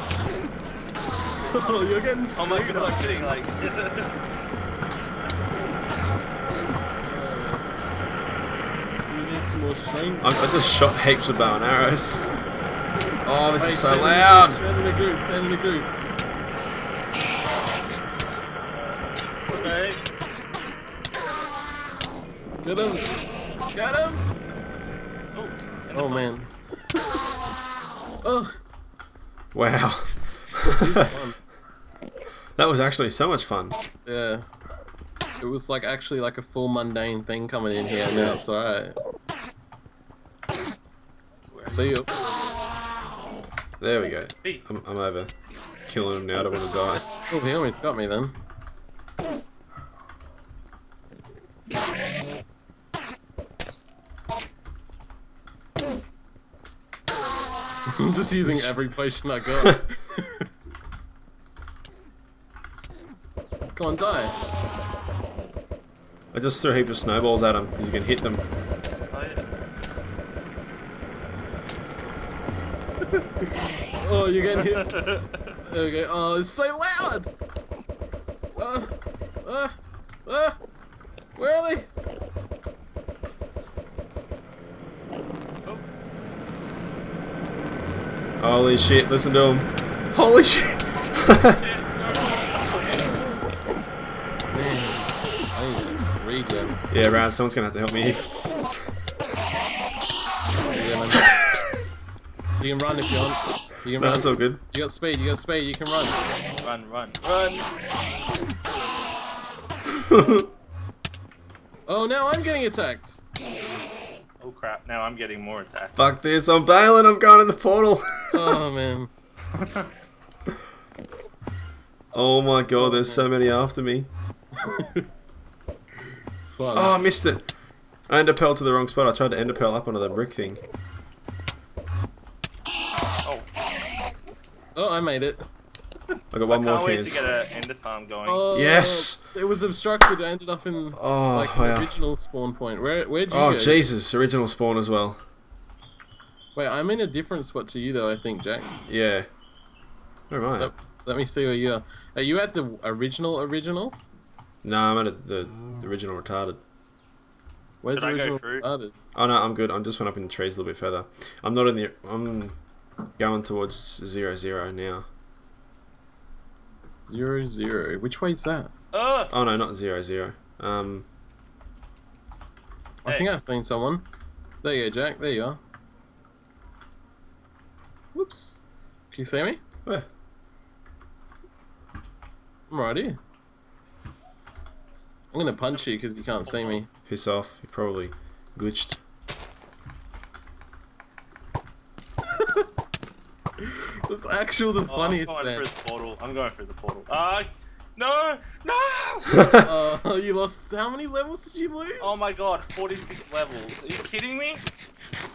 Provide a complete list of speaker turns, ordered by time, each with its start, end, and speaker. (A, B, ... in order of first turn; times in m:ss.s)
0:01.4-0:03.4 A
0:02.4-0:04.2 B
0:05.3-0:05.7 B
0:07.0-0:07.9 A
0:09.0-0:10.6 A
0:10.2-0:12.2 C
0:13.2-0:14.6 C
0:13.6-0:15.9 A
0:18.7-0:20.0 B
0:22.6-0:23.2 A
0:23.7-0:24.2 A
0:25.3-0:26.3 B
0:25.9-0:26.5 A
0:28.2-0:28.5 A
0:29.5-0:30.8 C
0:30.8-0:31.4 A
0:32.6-0:33.8 C
0:34.0-0:34.4 A
0:35.4-0:38.9 A
0:38.0-0:38.4 C
0:41.5-0:41.9 B
0:41.7-0:42.1 A
0:43.8-0:45.3 C
0:45.9-0:47.1 C
0:47.3-0:48.3 A
0:57.9-1:00.5 A
0:58.4-0:58.8 C
1:03.6-1:04.4 A
1:06.3-1:08.4 C
1:09.1-1:09.4 B
1:13.1-1:15.0 A
1:14.5-1:15.4 B
1:15.6-1:17.3 A
1:18.5-1:18.9 A
1:19.4-1:20.6 A
1:21.4-1:21.9 A
1:28.4-1:31.6 C
1:31.3-1:33.2 B
1:34.5-1:36.8 A
1:36.9-1:38.3 C
1:40.6-1:41.3 A
1:42.6-1:46.2 A
1:44.0-1:44.6 C
1:46.6-1:47.7 B
1:50.0-1:50.5 C
1:51.9-1:53.2 A
1:54.4-1:56.0 B
1:56.0-1:58.6 C
1:58.3-1:59.1 A
1:59.6-1:59.9 B
2:02.1-2:04.1 C
2:02.7-2:03.3 A
2:04.6-2:05.1 A
2:06.0-2:07.0 A
2:06.7-2:07.5 C
2:08.1-2:10.6 C
2:14.8-2:15.4 A
2:16.3-2:17.2 C
2:16.5-2:18.4 B
2:18.2-2:23.8 A
2:18.5-2:19.2 C
2:20.9-2:21.9 C
2:23.3-2:25.2 C
2:26.5-2:28.8 A
2:28.9-2:29.3 C
2:30.3-2:30.7 C
2:30.6-2:34.0 A
2:34.6-2:36.6 C
2:37.8-2:39.0 A
2:37.9-2:38.6 B
2:39.1-2:42.6 C
2:43.2-2:45.1 C
2:47.0-2:48.7 A
2:48.9-2:49.3 B
2:49.3-2:51.0 C
2:53.0-2:54.0 A
2:53.0-2:53.3 B
2:54.6-2:55.6 A
2:58.1-2:58.6 A
2:59.1-2:59.6 A
3:02.7-3:03.2 A
3:05.3-3:06.9 A
3:05.7-3:06.8 B
3:07.0-3:09.0 C
3:12.3-3:12.7 A
3:13.6-3:15.6 A
3:14.9-3:19.5 B
3:19.3-3:19.6 C
3:19.6-3:22.2 A
3:22.0-3:24.6 B